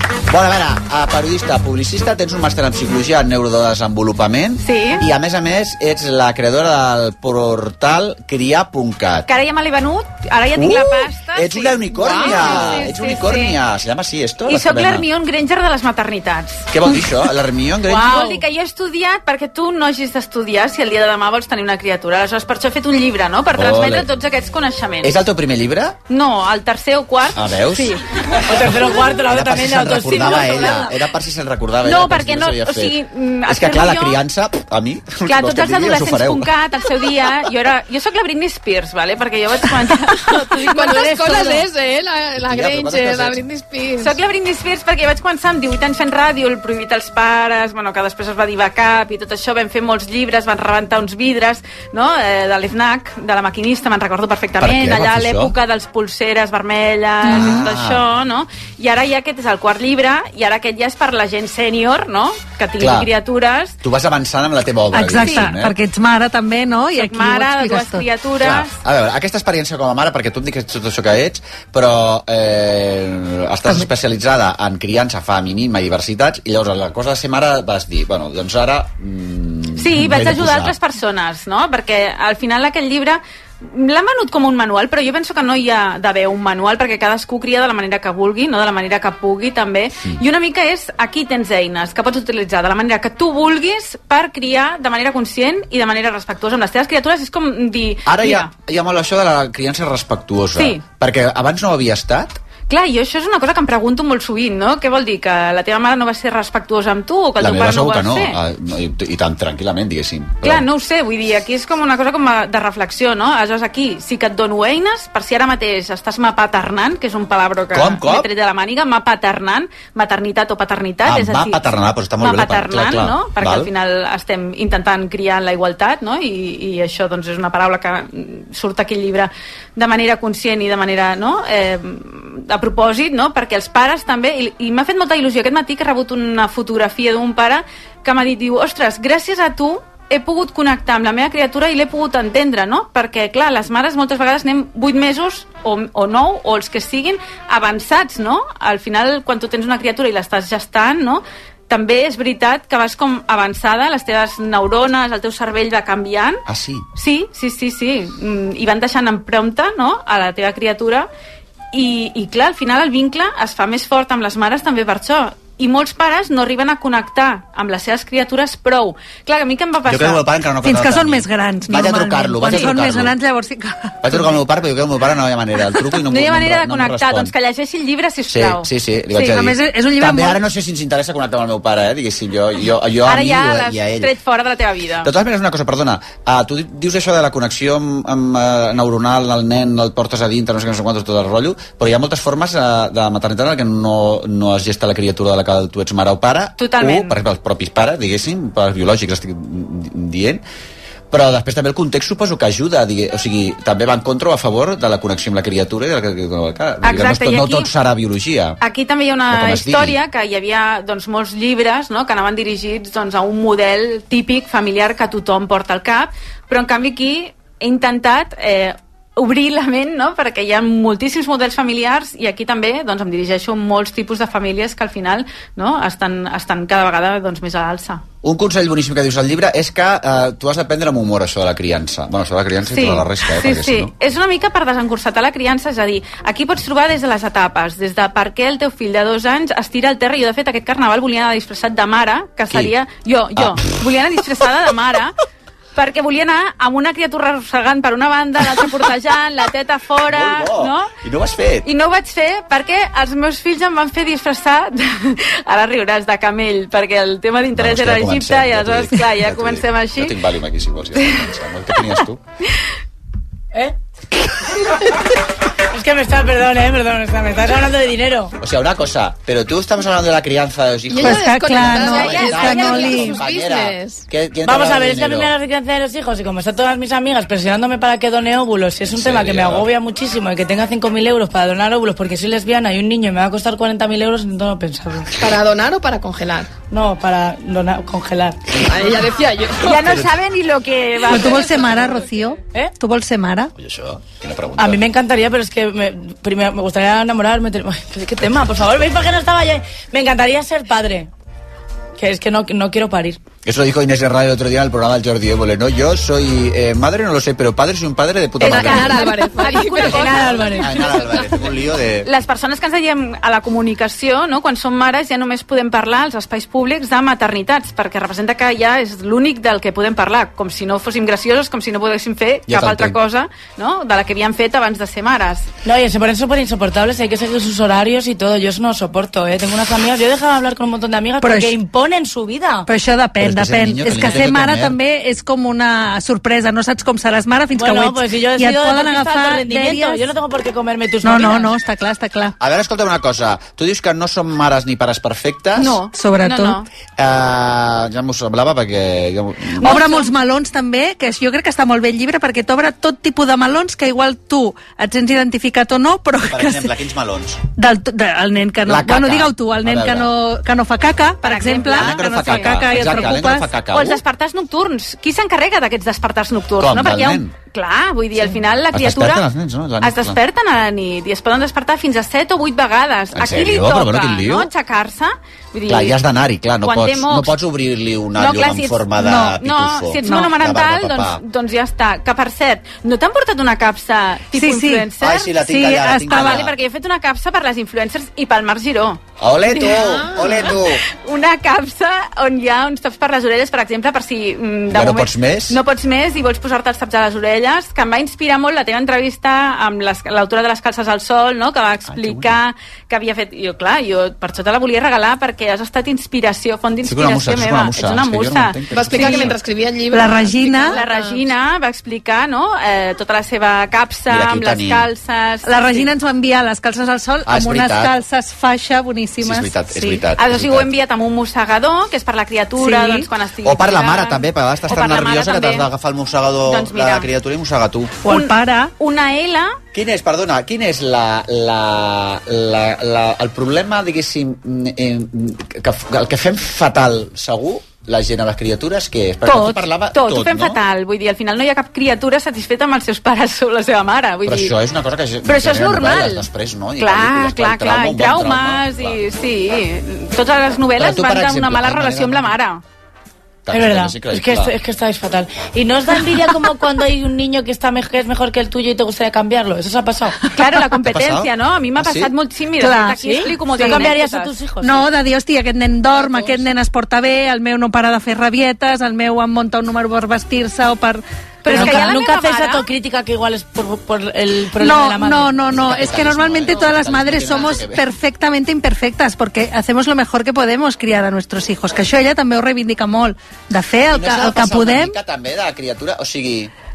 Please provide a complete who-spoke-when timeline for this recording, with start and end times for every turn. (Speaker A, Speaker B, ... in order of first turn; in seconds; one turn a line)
Speaker A: 0.3-9.3
Speaker B: 4.6-5.0
Speaker B: 9.3-13.6
Speaker A: 10.5-15.1
Speaker B: 14.4-16.7
Speaker A: 16.7-18.4
Speaker B: 17.8-25.2
Speaker A: 23.5-24.1
Speaker A: 25.0-26.0
Speaker B: 26.1-28.0
Speaker A: 27.3-27.9
Speaker C: 28.4-30.8
Speaker A: 29.2-33.0
Speaker B: 30.3-30.8
Speaker B: 31.8-34.2
Speaker A: 33.5-36.5
Speaker B: 35.2-41.6
Speaker D: 40.3-44.2
Speaker A: 42.4-43.4
Speaker B: 44.0-63.8
Speaker A: 54.6-55.5
Speaker E: 57.3-57.6
Speaker A: 57.3-58.0
Speaker A: 62.8-63.1
Speaker A: 63.8-65.7
Speaker E: 64.9-68.1
Speaker B: 65.1-65.5
Speaker B: 66.9-68.8
Speaker A: 68.4-80.7
Speaker B: 79.8-98.5
Speaker A: 98.0-102.4
Speaker B: 100.5-100.8
Speaker B: 102.7-108.4
Speaker A: 107.4-110.7
Speaker B: 110.4-121.6
Speaker A: 117.7-118.3
Speaker A: 121.0-123.7
Speaker B: 122.2-156.4
Speaker A: 156.5-156.8
Speaker B: 156.9-161.1
Speaker B: 161.7-170.2
Speaker A: 169.8-173.1
Speaker E: 170.6-174.2
Speaker B: 172.4-172.7
Speaker A: 174.0-177.3
Speaker B: 176.0-179.2
Speaker A: 178.3-184.1
Speaker E: 179.2-180.4
Speaker B: 183.0-185.1
Speaker A: 185.0-200.4
Speaker B: 196.6-197.2
Speaker A: 201.1-208.6
Speaker B: 206.8-207.7
Speaker B: 208.6-228.0
Speaker A: 209.3-210.0
Speaker A: 228.2-233.9
Speaker B: 232.7-245.1
Speaker A: 243.3-243.7
Speaker B: 245.7-250.9
Speaker A: 250.1-251.7
Speaker B: 251.6-260.1
Speaker A: 257.5-262.2
Speaker C: 265.7-268.3
Speaker A: 268.4-275.3
Speaker D: 270.9-274.0
Speaker E: 271.0-273.2
Speaker C: 274.4-285.1
Speaker A: 278.9-279.6
Speaker D: 285.2-286.5
Speaker C: 286.7-288.4
Speaker D: 288.6-290.1
Speaker B: 289.6-291.7
Speaker E: 291.0-293.5
Speaker A: 293.6-294.8
Speaker C: 294.6-301.1
Speaker C: 302.0-303.2
Speaker A: 303.4-309.1
Speaker D: 308.4-310.2
Speaker B: 308.4-311.4
Speaker C: 309.6-310.7
Speaker A: 309.8-312.1
Speaker B: 312.0-325.5
Speaker A: 322.5-323.0
Speaker C: 325.6-332.7
Speaker E: 331.2-331.6
Speaker E: 332.7-340.0
Speaker A: 333.2-334.8
Speaker C: 337.6-341.6
Speaker E: 341.0-342.3
Speaker A: 342.4-345.8
Speaker B: 345.6-346.7
Speaker E: 345.9-346.6
Speaker A: 347.0-349.9
Speaker B: 349.6-350.1
Speaker E: 349.6-356.7
Speaker A: 356.2-357.4
Speaker E: 357.6-363.5
Speaker A: 358.6-360.1
Speaker B: 361.2-363.1
Speaker A: 361.7-364.0
Speaker B: 363.6-369.2
Speaker A: 366.6-367.3
Speaker A: 368.7-370.2
Speaker B: 369.8-376.0
Speaker A: 373.1-374.5
Speaker A: 375.7-381.2
Speaker B: 376.6-377.4
Speaker B: 378.1-385.3
Speaker E: 380.0-380.3
Speaker E: 384.4-386.4
Speaker A: 385.0-386.5
Speaker B: 386.0-389.0
Speaker A: 389.2-390.8
Speaker B: 389.5-409.3
Speaker A: 394.7-395.6
Speaker A: 401.9-402.4
Speaker A: 406.8-409.4
Speaker D: 408.7-411.3
Speaker E: 409.9-410.8
Speaker B: 410.7-415.9
Speaker A: 414.1-414.9
Speaker E: 415.4-420.1
Speaker A: 417.2-418.0
Speaker A: 419.2-420.7
Speaker B: 420.2-425.7
Speaker E: 422.6-423.0
Speaker A: 423.4-428.0
Speaker B: 426.4-427.1
Speaker E: 428.0-428.7
Speaker B: 428.1-429.5
Speaker A: 429.7-440.6
Speaker B: 439.2-444.5
Speaker A: 444.2-449.0
Speaker B: 445.2-446.2
Speaker B: 446.8-452.6
Speaker A: 450.8-452.3
Speaker A: 453.4-454.5
Speaker C: 453.5-460.2
Speaker B: 460.3-464.3
Speaker A: 460.7-462.1
Speaker E: 462.6-463.9
Speaker C: 463.1-464.9
Speaker E: 464.6-472.0
Speaker B: 471.4-472.6
Speaker C: 471.5-475.8
Speaker E: 474.6-485.0
Speaker A: 475.5-477.8
Speaker A: 483.9-486.5